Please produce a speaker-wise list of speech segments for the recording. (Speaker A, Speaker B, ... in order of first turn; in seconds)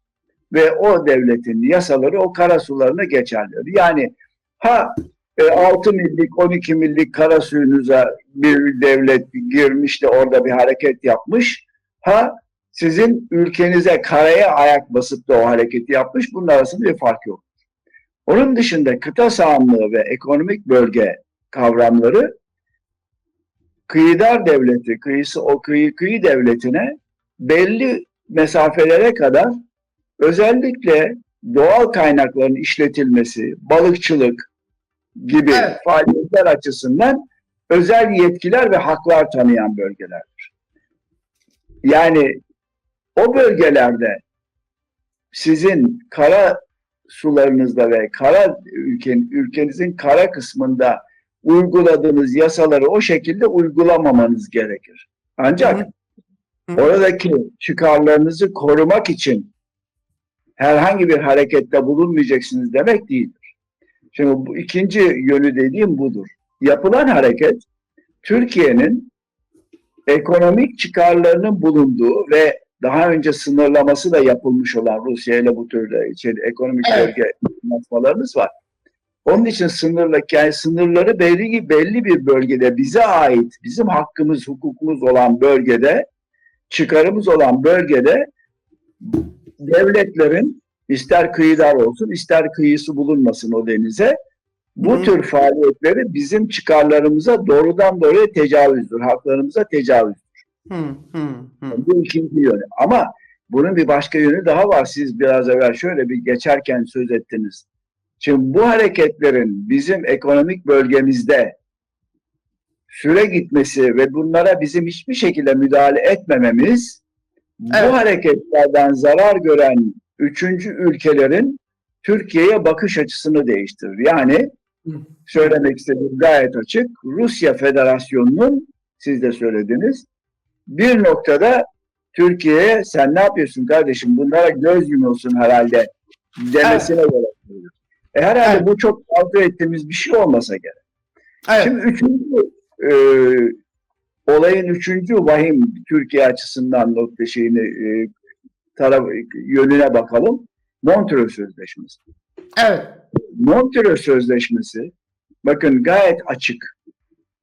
Speaker A: 0.5-17.4, 18.3-22.3, 23.9-29.5, 30.2-34.5, 35.2-40.5, 41.8-42.4, 43.2-44.2, 45.3-55.9, 56.8-59.5, 60.6-63.4, 64.1-67.6, 68.2-69.1, 70.1-78.5, 79.2-86.0, 86.7-88.3, 89.0-94.2, 94.8-100.3, 101.7-107.7, 108.2-111.5, 112.9-117.0, 117.6-124.5, 125.3-130.1, 130.7-140.8, 141.6-143.6, 144.3-148.1, 148.8-152.0, 153.3-154.9, 155.4-156.7
Speaker B: 35.5-35.8, 55.6-55.9, 76.8-77.1, 94.8-95.1, 100.7-101.8, 117.7-118.0, 124.9-125.5, 136.6-136.9, 152.6-152.9